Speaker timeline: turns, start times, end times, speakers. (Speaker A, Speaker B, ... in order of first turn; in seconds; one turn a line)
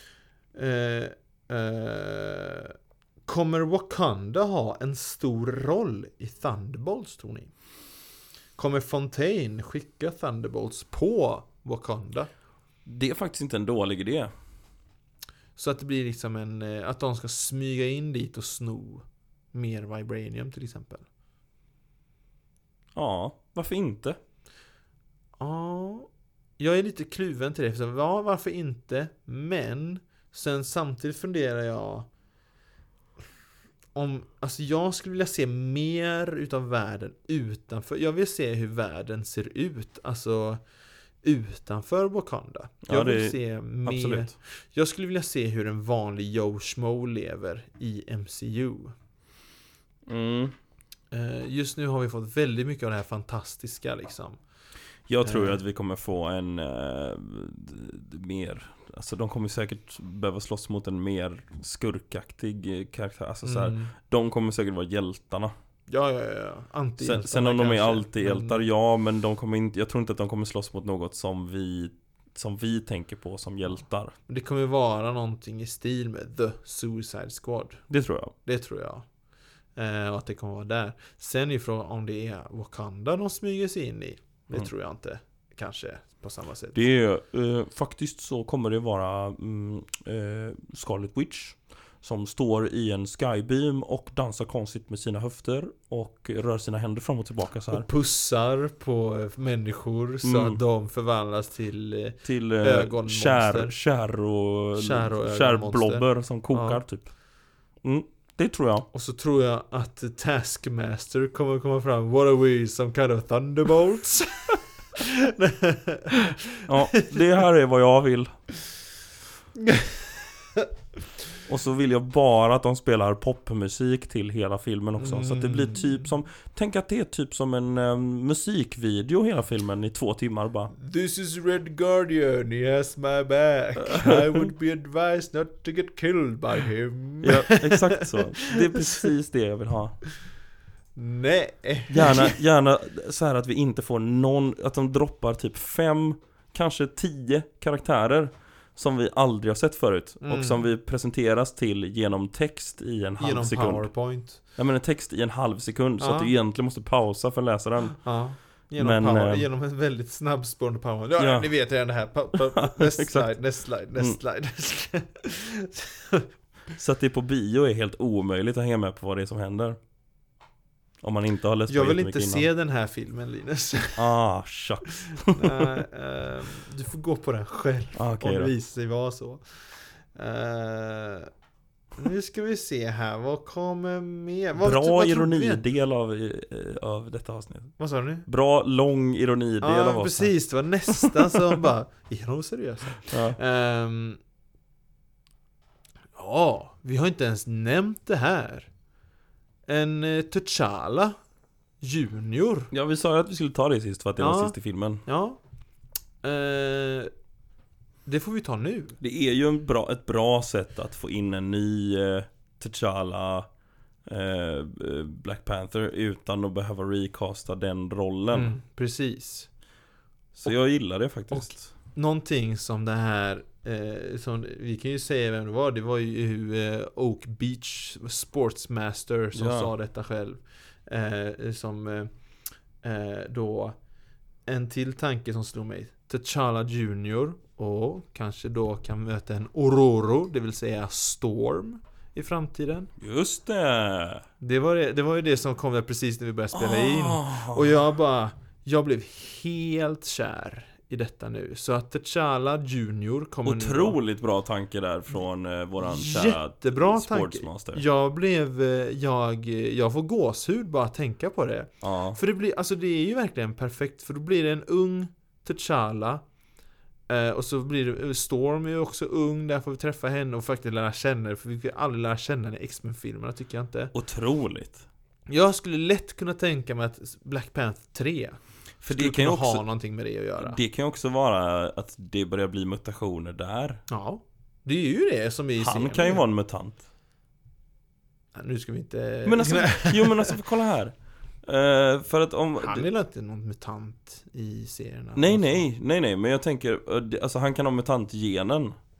Speaker A: 0.5-2.7
Speaker A: 3.3-7.5
Speaker A: 8.6-12.3
Speaker B: 12.9-14.3
Speaker A: 15.6-21.1
Speaker B: 22.9-24.2
Speaker A: 25.4-32.1
Speaker A: 34.0-40.6
Speaker A: 41.2-49.0
Speaker B: 42.9-44.3
Speaker B: 50.1-50.5
Speaker A: 51.1-54.4
Speaker B: 55.1-65.5
Speaker A: 55.2-55.6
Speaker A: 63.4-63.9
Speaker A: 65.9-68.7
Speaker B: 67.0-74.1
Speaker A: 74.3-77.8
Speaker B: 77.9-78.3
Speaker A: 78.4-79.1
Speaker A: 79.8-86.8
Speaker B: 86.7-97.9
Speaker A: 97.7-103.7
Speaker B: 100.2-100.6
Speaker B: 102.2-107.1
Speaker A: 104.7-106.8
Speaker B: 107.8-108.9
Speaker A: 108.9-117.0
Speaker B: 116.7-118.4
Speaker A: 119.6-120.7
Speaker B: 121.5-130.7
Speaker A: 125.0-126.0
Speaker A: 130.8-139.1
Speaker B: 133.9-134.5
Speaker B: 137.2-140.0
Speaker A: 141.0-142.4
Speaker B: 141.9-153.9
Speaker A: 150.2-150.6
Speaker A: 153.2-154.4
Speaker B: 154.5-158.1
Speaker A: 156.0-156.3
Speaker A: 158.0-166.3
Speaker B: 158.8-159.5
Speaker B: 161.2-161.5
Speaker B: 162.5-163.3
Speaker B: 166.7-169.8
Speaker B: 171.0-172.5
Speaker A: 171.7-174.1
Speaker B: 174.0-175.7
Speaker A: 175.2-181.3
Speaker B: 177.9-178.5
Speaker A: 182.0-185.6
Speaker B: 184.6-190.3
Speaker A: 187.8-188.3
Speaker A: 189.6-194.2
Speaker B: 190.9-191.3
Speaker B: 193.1-193.4
Speaker A: 196.2-198.7
Speaker A: 199.7-201.2
Speaker A: 201.8-202.7
Speaker B: 202.7-205.0
Speaker A: 204.2-205.4
Speaker A: 206.2-207.1
Speaker A: 208.1-209.0
Speaker B: 209.0-213.5
Speaker B: 214.1-218.5
Speaker A: 218.3-219.5
Speaker B: 220.3-221.7
Speaker A: 221.3-232.1
Speaker B: 229.3-229.7
Speaker A: 232.8-233.8
Speaker A: 234.5-242.9
Speaker B: 243.0-244.2
Speaker A: 244.4-254.0
Speaker B: 246.5-247.8
Speaker B: 253.5-257.8
Speaker A: 255.8-266.2
Speaker B: 261.8-262.2
Speaker A: 267.1-273.9
Speaker B: 273.9-274.9
Speaker A: 275.3-280.6
Speaker B: 278.8-279.6
Speaker B: 280.4-283.8
Speaker A: 283.9-286.2
Speaker B: 285.6-286.8
Speaker A: 288.4-290.4
Speaker B: 289.3-292.9
Speaker A: 292.6-295.7
Speaker B: 295.2-298.8